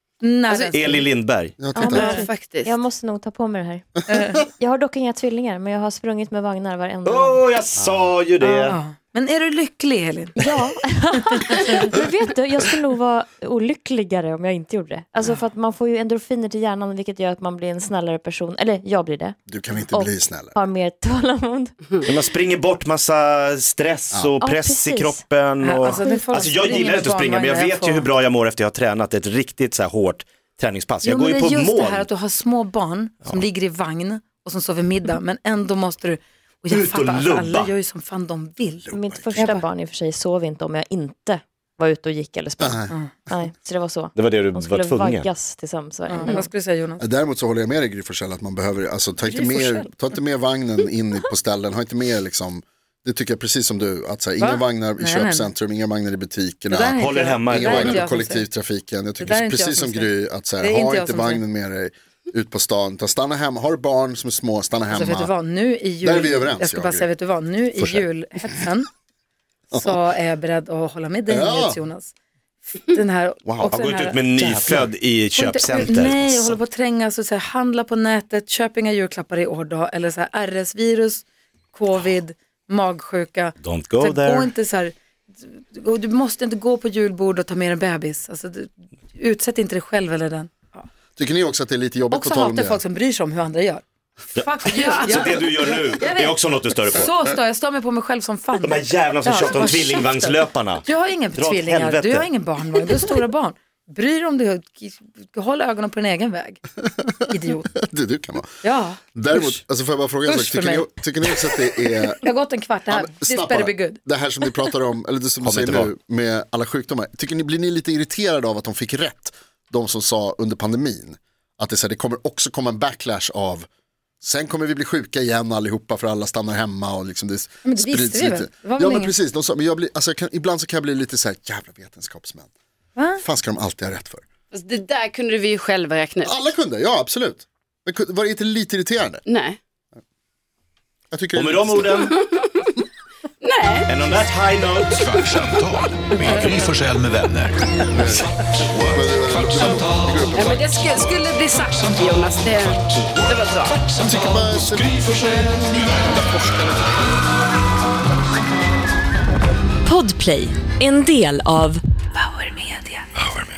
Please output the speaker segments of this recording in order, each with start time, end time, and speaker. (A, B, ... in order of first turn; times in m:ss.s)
0:00.2-0:01.1 A
0:00.5-0:00.8 B
0:00.7-0:01.6 C
0:01.6-0:02.2 D
0:01.7-0:07.4 E
0:01.8-0:02.8 B
0:04.1-0:04.4 A
0:07.0-0:08.8 C
0:07.8-0:08.1 D
0:08.4-0:10.4 A
0:10.4-0:19.4 E
0:19.5-0:20.6 D
0:19.9-0:22.0 E
0:22.0-0:32.1 C
0:24.4-0:25.2 E
0:25.6-0:28.1 A
0:25.8-0:26.7 E
0:31.0-0:39.7 A
0:36.7-0:37.7 C
0:38.9-0:39.5 D
0:38.9-0:46.5 E
0:42.6-0:42.9 D
0:44.2-0:45.3 C
0:46.1-0:47.0 A
0:47.0-1:05.3 D
0:49.2-0:49.9 A
0:54.4-0:55.5 A
0:56.7-0:58.5 A
0:57.0-0:58.0 C
0:59.2-1:01.4 A
1:04.9-1:08.9 A
1:06.0-1:07.1 D
1:07.8-1:08.6 D
1:09.7-1:10.0 D
1:09.7-1:12.1 A
1:11.3-1:11.8 D
1:12.7-1:30.8 A
1:13.4-1:13.8 D
1:13.7-1:16.6 C
1:23.6-1:24.5 C
1:31.2-1:32.8 D
1:32.1-1:47.7 A
1:34.4-1:37.1 C
1:34.8-1:35.3 B
1:38.6-1:40.8 C
1:41.4-1:42.3 C
1:47.7-1:52.2 D
1:48.6-1:49.6 A
1:50.3-1:54.0 A
1:52.9-2:03.7 D
1:55.4-1:55.9 C
2:04.2-2:12.5 D
2:07.6-2:09.1 A
2:13.0-2:13.2 A
2:13.2-2:14.2 D
2:14.5-2:16.4 B
2:16.2-2:19.2 D
2:19.3-2:19.6 B
2:21.1-2:22.1 D
2:21.4-2:22.2 C
2:22.2-2:22.7 B
2:23.4-2:23.9 B
2:23.9-2:25.0 C
2:24.9-2:29.0 F
2:27.9-2:30.8 D
2:30.3-2:33.8 B
2:34.0-2:35.6 D
2:39.9-2:42.9 G